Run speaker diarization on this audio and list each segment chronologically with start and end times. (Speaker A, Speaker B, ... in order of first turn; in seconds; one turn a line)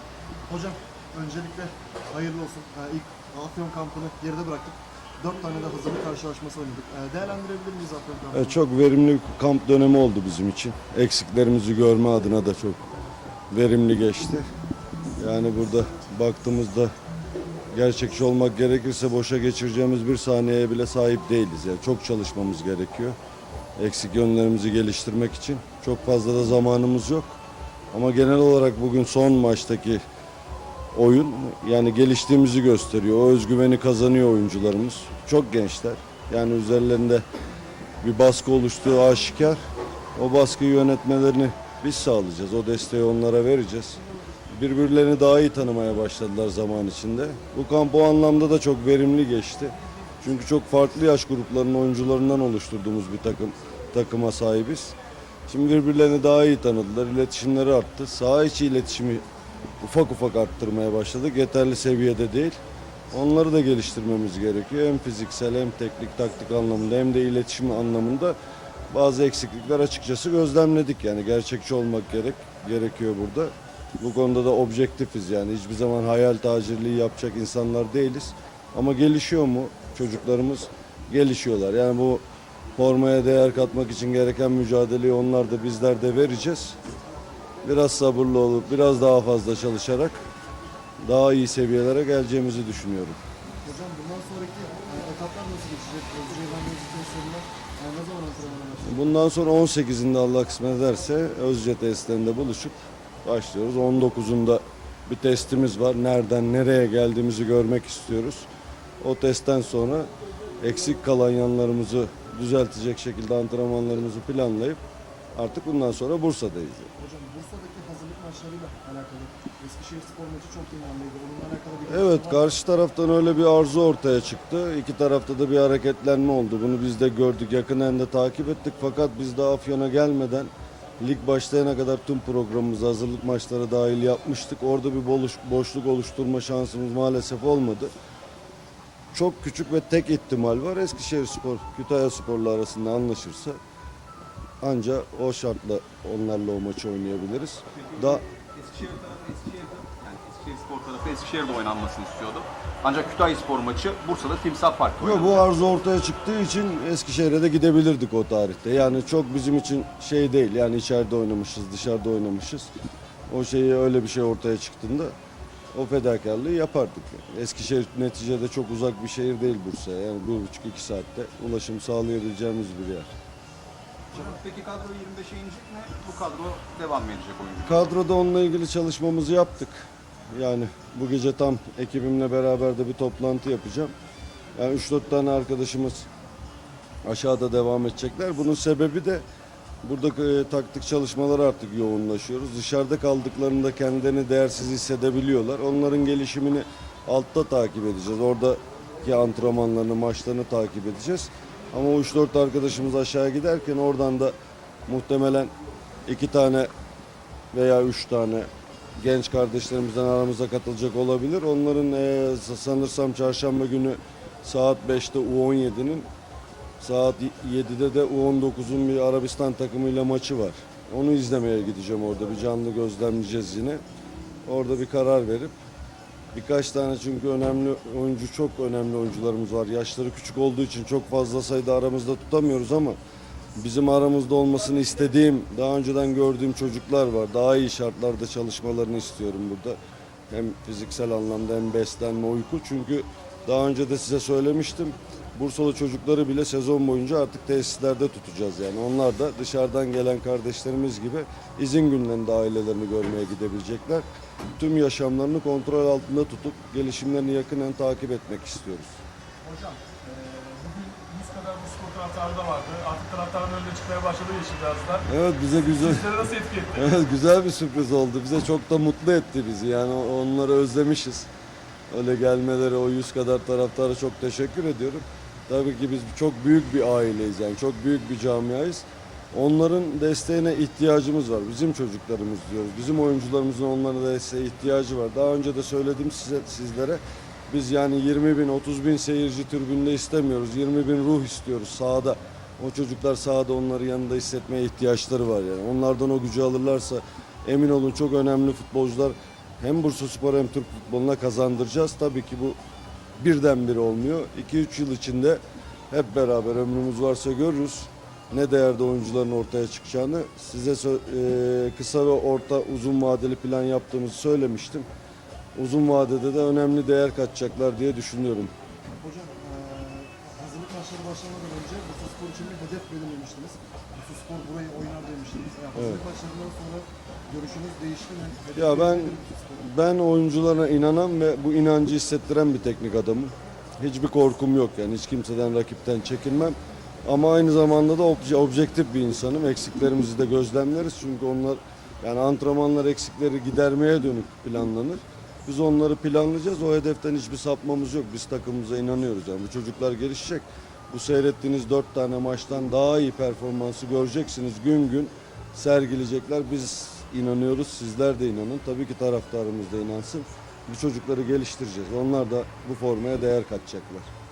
Speaker A: 0.5-8.6
Speaker B: 8.3-12.8
Speaker B: 13.5-14.4
Speaker B: 15.2-16.9
Speaker B: 17.7-23.2
Speaker B: 23.8-27.4
Speaker B: 27.9-30.0
Speaker B: 30.9-37.2
Speaker B: 38.0-39.6
Speaker B: 40.1-44.0
Speaker B: 44.5-54.9
Speaker B: 55.5-59.2
Speaker B: 59.8-62.6
Speaker B: 63.1-68.3
Speaker B: 68.9-82.2
Speaker B: 82.8-86.8
Speaker B: 87.6-90.2
Speaker B: 91.0-93.2
Speaker A: 93.6-99.1
Speaker B: 98.8-108.5
Speaker B: 109.0-110.1
Speaker B: 110.6-114.8
Speaker B: 115.3-116.9
Speaker A: 117.0-122.5
Speaker B: 121.9-137.9
Speaker B: 139.1-143.6
Speaker B: 144.6-148.2
Speaker C: 147.8-155.4
Speaker B: 155.0-162.7
Speaker B: 163.3-165.1
Speaker B: 165.7-173.1
Speaker C: 174.1-177.9
Speaker B: 177.6-183.9
Speaker B: 184.6-186.1
Speaker B: 187.0-189.2
Speaker B: 189.8-204.3
Speaker B: 204.9-205.5
Speaker B: 206.1-206.7
Speaker B: 207.5-216.1
Speaker B: 216.8-223.8
Speaker B: 224.4-225.6
Speaker B: 226.3-233.0
Speaker B: 233.6-239.8
Speaker B: 240.3-254.0
Speaker B: 254.6-259.0
Speaker A: 259.4-259.8
Speaker D: 259.5-265.1
Speaker B: 265.1-266.1
Speaker D: 265.7-266.9
Speaker B: 266.7-271.3
Speaker B: 271.9-302.6
Speaker B: 303.2-314.9
Speaker B: 315.5-318.5
Speaker A: 319.0-329.7
Speaker B: 325.7-326.0
Speaker B: 328.5-364.1